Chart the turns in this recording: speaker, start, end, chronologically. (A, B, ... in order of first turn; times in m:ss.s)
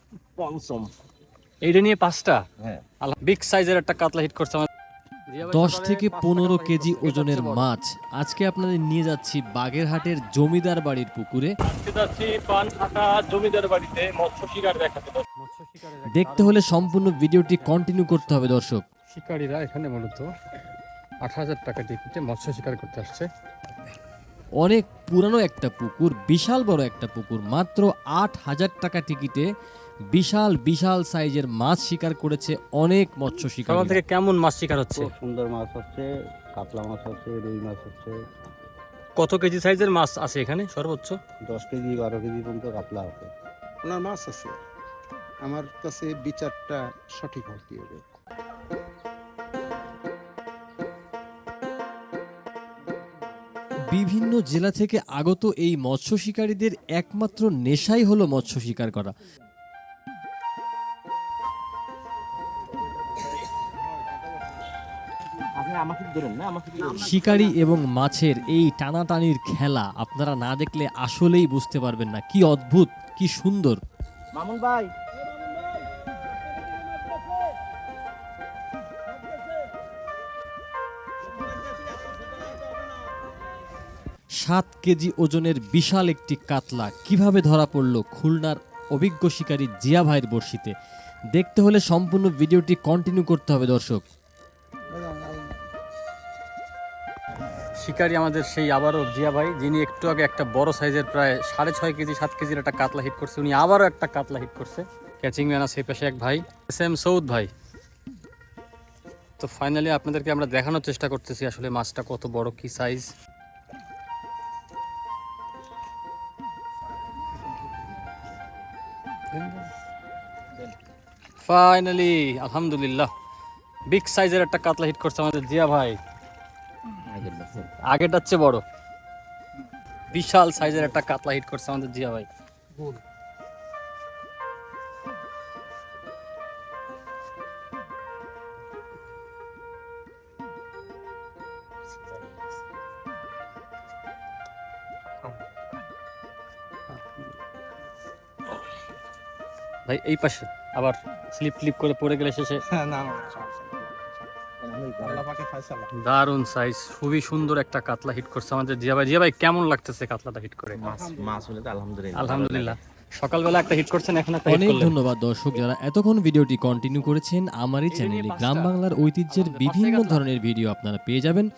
0:00.4-0:00.9 A
0:01.6-0:02.4 B
0:03.0-0:04.7 B
0:05.3-0:07.7 B
0:05.4-0:11.6 C
0:11.6-0:18.5 B
0:16.1-0:18.8 C
0:19.1-0:20.3 B
0:21.2-0:23.3 B
0:24.6-0:29.5 C
0:30.1-0:34.0 C
0:33.6-0:35.1 B
0:34.9-0:38.1 D
0:39.2-0:41.2 B
0:41.5-0:43.3 D
0:43.8-0:44.6 E
0:45.4-0:48.0 E
0:53.9-0:59.2 C
1:05.6-1:07.5 A
1:06.9-1:13.8 C
1:14.3-1:14.9 A
1:24.4-1:30.7 C
1:31.3-1:34.0 C
1:34.9-1:35.4 E
1:37.8-1:47.5 B
1:49.4-1:53.1 B
1:59.3-1:59.7 B
2:01.4-2:03.1 B
2:03.9-2:06.0 B
2:07.1-2:07.7 A
2:07.8-2:08.6 B
2:10.1-2:12.3 B
2:26.9-2:27.2 B
2:29.9-2:32.6 B
2:32.7-2:34.2 E
2:34.6-2:35.2 A
2:35.0-2:35.9 E
2:36.0-2:40.8 B
2:40.8-2:42.8 A
2:40.8-2:41.4 E
2:42.1-2:45.0 B
2:44.4-2:51.5 C
2:47.9-2:48.8 B
2:49.3-2:50.2 B